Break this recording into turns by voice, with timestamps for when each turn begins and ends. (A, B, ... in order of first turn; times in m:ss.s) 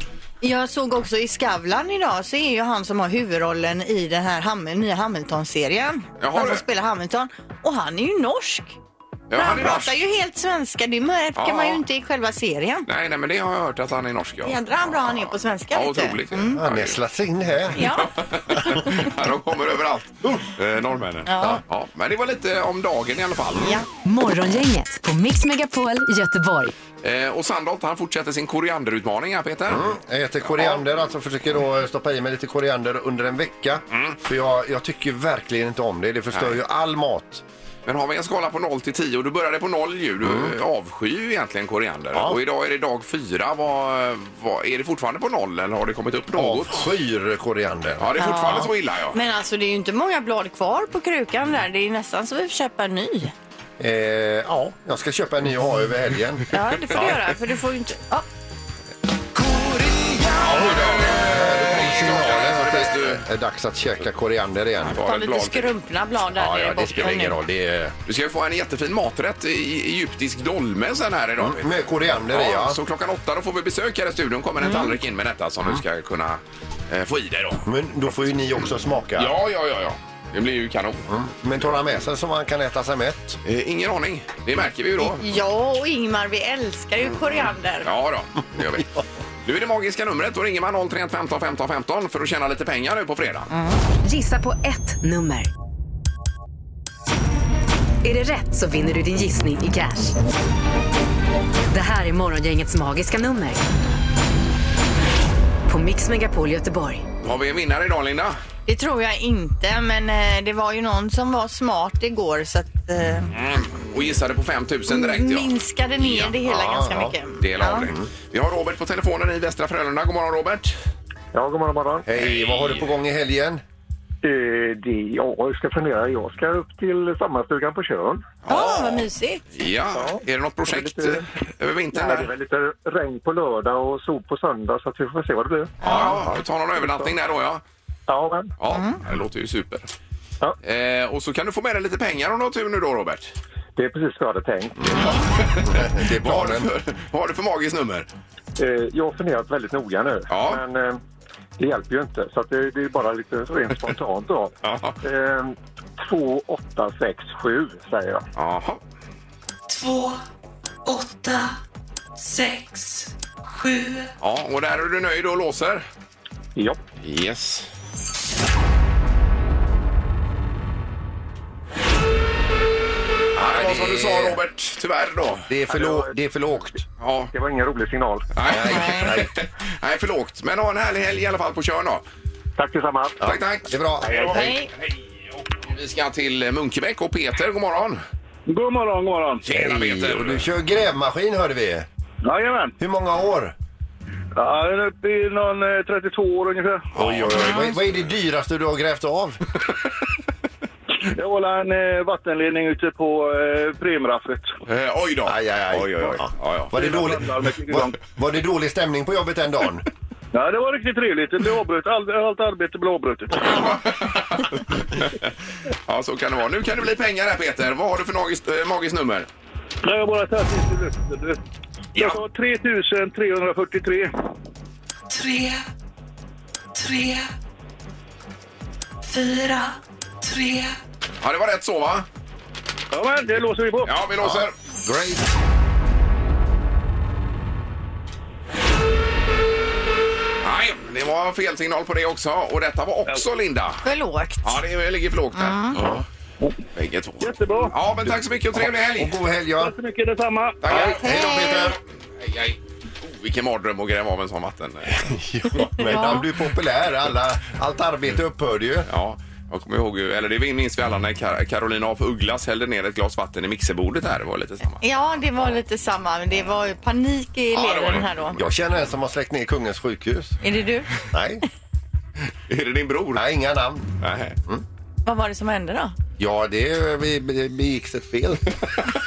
0:00.4-0:08.8 A
0:06.2-0:06.6 B
0:09.3-0:10.0 B
0:09.3-0:12.9 A
0:11.4-0:11.8 B
0:12.9-0:15.2 B
0:14.4-0:16.6 A
0:15.7-0:17.0 B
0:16.6-0:17.9 C
0:17.8-0:18.1 A
0:18.0-0:23.8 B
0:21.2-0:21.6 A
0:23.6-0:23.8 A
0:24.0-0:26.7 D
0:27.0-0:29.9 B
0:29.7-0:37.4 C
0:30.4-0:30.8 B
0:33.9-0:34.2 B
0:36.3-0:36.6 B
0:37.8-0:46.9 B
0:40.2-0:40.5 C
0:42.1-0:42.4 C
0:46.3-0:48.1 C
0:48.0-0:49.2 B
0:48.2-0:53.3 A
0:53.8-0:57.1 C
0:56.5-0:58.2 A
1:00.3-1:03.2 B
1:00.5-1:05.0 C
1:04.8-1:05.7 B
1:05.0-1:07.4 A
1:06.3-1:08.0 C
1:08.0-1:17.6 B
1:11.4-1:12.8 C
1:14.6-1:15.0 A
1:17.6-1:19.3 C
1:19.2-1:21.0 B
1:21.1-1:23.4 C
1:23.4-1:25.2 B
1:25.0-1:27.9 A
1:27.8-1:28.9 B
1:29.4-1:33.5 B
1:33.5-1:33.8 A
1:34.0-1:35.5 D
1:38.0-1:40.2 D
1:41.7-1:43.6 D
1:45.7-1:47.1 D
1:47.2-1:48.4 B
1:48.6-1:53.3 A
1:53.3-1:56.4 B
1:54.9-1:57.9 A
1:56.5-1:57.1 C
1:57.4-2:00.7 B
2:01.3-2:02.0 E
2:02.0-2:03.6 C
2:02.1-2:02.9 B
2:04.2-2:08.3 E
2:08.4-2:12.3 B
2:08.5-2:09.4 A
2:09.9-2:11.3 E
2:11.9-2:17.1 E
2:15.8-2:16.2 A
2:15.8-2:17.6 B
2:18.1-2:18.5 E
2:18.6-2:19.9 B
2:18.7-2:19.0 A
2:20.6-2:23.3 B
2:23.8-2:25.1 E
2:25.0-2:28.1 B
2:25.6-2:26.7 C
2:28.6-2:31.0 E
2:30.3-2:30.6 B
2:31.6-2:38.2 E
2:34.6-2:35.0 B
2:38.4-2:38.8 B
2:39.7-2:40.1 F
2:40.8-2:41.5 F
2:42.2-2:44.0 F
2:44.2-2:45.8 B
2:47.0-2:47.7 B
2:53.4-2:55.5 B
2:53.4-2:54.4 C
2:55.5-2:56.8 C
2:55.7-2:56.1 E
2:57.0-2:57.3 B
2:57.3-2:58.3 E
2:58.3-3:02.0 B
2:58.4-2:59.3 C
2:58.7-2:59.1 A
3:02.6-3:03.2 E
3:03.2-3:04.5 C
3:03.2-3:03.7 B
3:04.0-3:04.4 E
3:04.3-3:04.7 A
3:05.5-3:08.0 B
3:08.5-3:09.4 G
3:09.4-3:10.4 B
3:09.5-3:11.8 C
3:12.2-3:12.8 G
3:12.8-3:13.5 C
3:14.3-3:16.9 G
3:16.9-3:19.4 C
3:17.0-3:17.8 B
3:21.1-3:24.5 G
3:24.7-3:26.7 B
3:25.3-3:29.8 C
3:26.7-3:28.0 G
3:30.3-3:33.6 G
3:33.4-3:35.3 B
3:35.9-3:39.3 B
3:39.8-3:41.4 G
3:42.0-3:44.1 G
3:45.1-3:45.6 F
3:46.8-3:47.2 F
3:49.0-3:50.7 F
3:51.2-3:52.1 B
3:52.9-3:53.9 G
3:53.8-3:54.5 B
3:54.2-3:55.3 C
4:00.4-4:03.8 B
4:03.8-4:04.6 A
4:04.4-4:06.0 B
4:05.3-4:05.8 A
4:06.7-4:09.2 B
4:07.2-4:07.7 G
4:08.5-4:09.7 C
4:09.6-4:10.9 G
4:10.6-4:15.1 B
4:10.7-4:11.8 C
4:11.0-4:11.7 A
4:15.0-4:18.9 C
4:15.8-4:16.2 A
4:18.9-4:24.8 B
4:24.8-4:28.4 A
4:27.5-4:28.1 B
4:28.3-4:30.4 C
4:30.4-4:30.9 A
4:31.1-4:31.4 C
4:32.5-4:33.2 B
4:33.1-4:33.9 C
4:34.0-4:34.4 B
4:35.0-4:36.0 A
4:36.2-4:38.5 C